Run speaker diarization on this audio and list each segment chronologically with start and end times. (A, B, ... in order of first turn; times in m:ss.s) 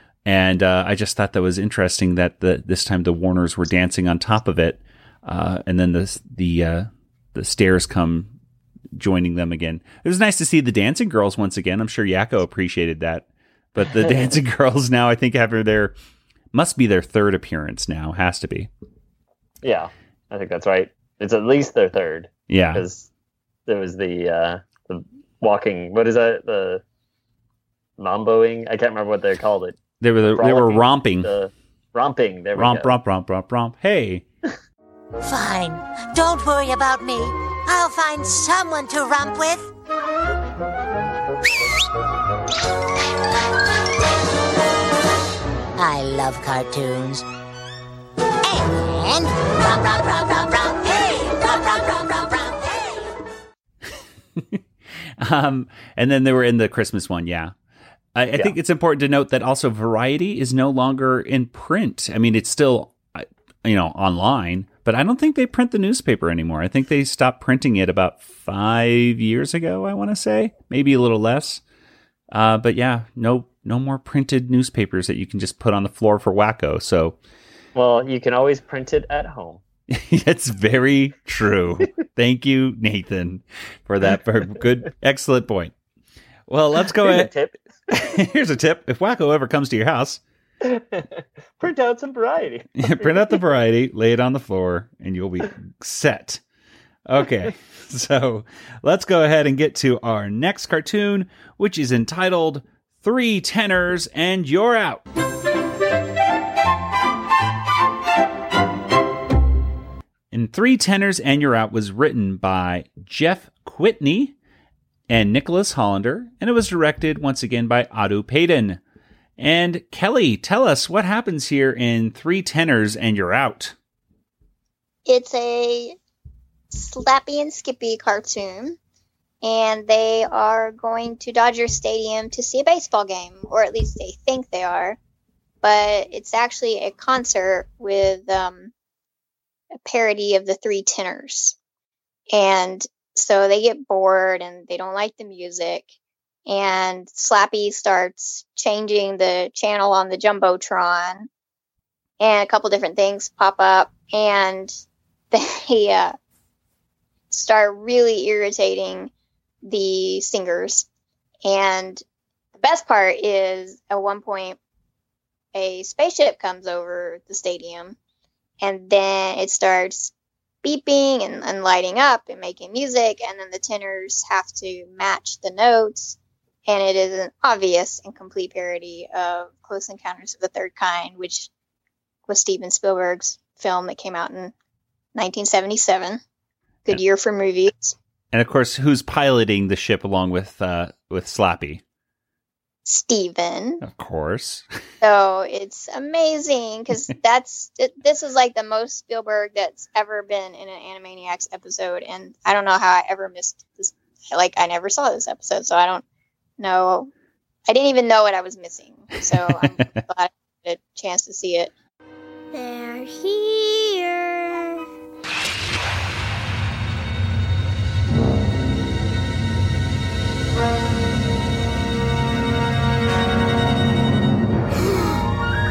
0:00.2-0:08.3 A
0:08.9-0:16.0 A
0:13.9-0:14.3 B
0:16.5-0:18.7 A
0:19.6-0:23.1 B
0:22.5-0:22.8 A
0:23.7-0:26.8 B
0:28.0-0:29.8 B
0:30.0-0:31.3 A
0:30.3-0:32.9 B
0:32.5-0:34.2 A
0:35.2-0:39.7 C
0:45.8-0:47.2 C
0:48.4-0:53.1 C
0:54.4-0:54.6 A
0:55.2-0:57.5 A
0:58.1-1:11.6 A
1:12.3-1:17.2 A
1:17.7-1:19.6 B
1:19.9-1:25.7 A
1:26.5-1:27.3 A
1:26.9-1:27.6 B
1:27.9-1:30.2 A
1:30.6-1:33.4 B
1:32.8-1:36.4 A
1:37.1-1:45.0 A
1:50.3-1:54.3 A
1:55.1-1:58.8 A
1:59.4-2:03.8 A
2:05.0-2:06.0 D
2:06.7-2:08.8 D
2:09.4-2:15.0 D
2:15.6-2:18.7 D
2:19.8-2:21.6 D
2:22.3-2:25.9 D
2:26.5-2:31.3 D
2:32.2-2:36.2 D
2:37.3-2:39.1 D
2:39.6-2:40.9 D
2:41.4-2:42.0 D
2:42.6-2:44.6 D
2:45.5-2:48.0 D
2:48.6-3:01.5 D
3:02.3-3:04.5 D
3:05.1-3:06.2 D
3:06.9-3:08.0 D
3:08.3-3:11.8 A
3:12.8-3:13.8 D
3:13.8-3:14.6 A
3:15.0-3:26.0 D
3:26.6-3:27.1 D
3:27.7-3:31.7 D
3:29.3-3:29.9 A
3:32.5-3:34.8 E